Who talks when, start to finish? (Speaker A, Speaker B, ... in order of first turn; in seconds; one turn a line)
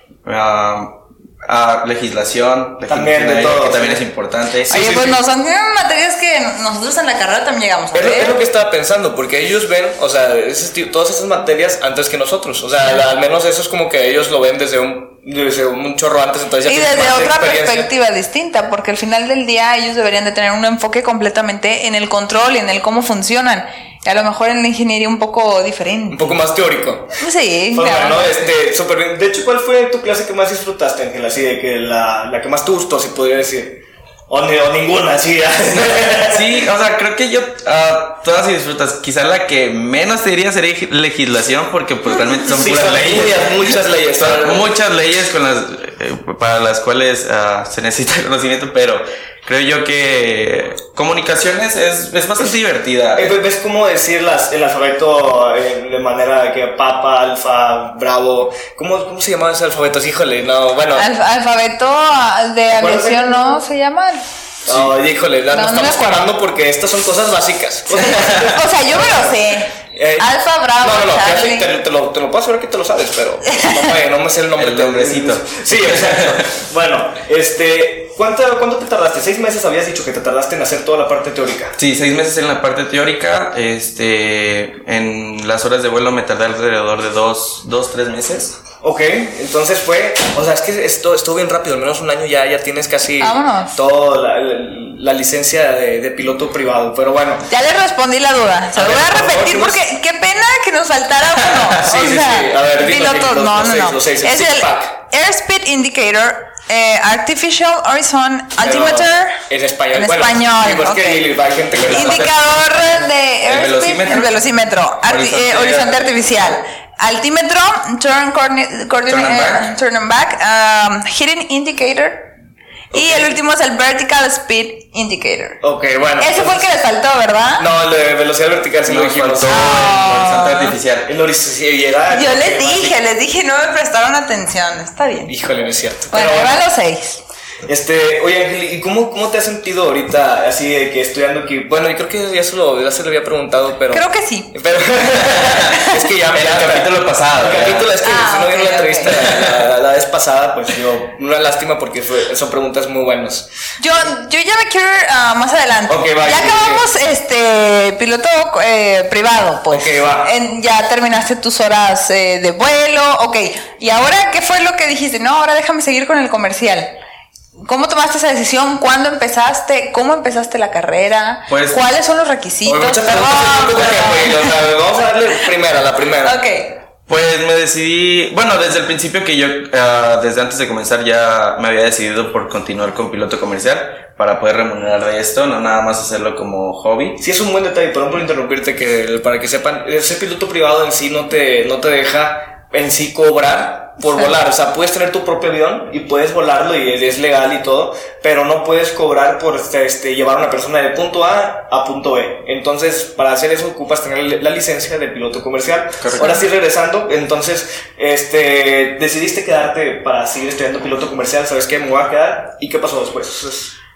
Speaker A: 0.2-4.7
Speaker B: 2.9-4.0
Speaker B: 4.7-5.2
Speaker C: 4.7-8.4
Speaker B: 7.9-17.9
Speaker C: 16.6-26.4
Speaker B: 26.1-27.1
Speaker C: 27.2-28.5
Speaker B: 27.7-36.5
Speaker A: 35.7-53.3
Speaker B: 42.4-44.6
Speaker B: 53.1-61.1
Speaker C: 60.9-64.2
Speaker B: 62.7-63.6
Speaker B: 64.6-69.3
Speaker C: 65.5-66.3
Speaker C: 67.9-71.7
Speaker B: 69.9-81.8
Speaker A: 74.5-76.4
Speaker A: 81.8-88.5
Speaker B: 88.8-97.4
Speaker C: 93.2-93.8
Speaker C: 97.5-109.3
Speaker B: 98.7-99.8
Speaker B: 101.8-104.9
Speaker B: 108.6-112.3
Speaker C: 109.9-122.2
Speaker A: 111.8-112.3
Speaker A: 113.5-114.3
Speaker A: 115.1-116.3
Speaker A: 119.1-119.7
Speaker B: 122.9-123.4
Speaker C: 122.9-125.6
Speaker B: 125.6-126.8
Speaker C: 126.2-127.7
Speaker B: 127.6-129.8
Speaker A: 128.9-131.1
Speaker C: 129.5-130.8
Speaker B: 131.0-133.0
Speaker C: 132.1-135.3
Speaker B: 135.2-136.6
Speaker C: 136.1-137.2
Speaker B: 137.7-153.5
Speaker C: 143.9-144.5
Speaker C: 145.6-145.9
Speaker A: 146.3-148.0
Speaker C: 148.0-149.3
Speaker A: 149.2-149.6
Speaker C: 153.8-166.9
Speaker B: 155.9-156.9
Speaker B: 159.7-160.3
Speaker C: 167.6-174.5
Speaker A: 171.5-171.9
Speaker B: 172.6-176.4
Speaker C: 176.2-176.8
Speaker A: 177.1-187.2
Speaker B: 187.2-213.7
Speaker A: 206.0-206.3
Speaker C: 206.2-206.4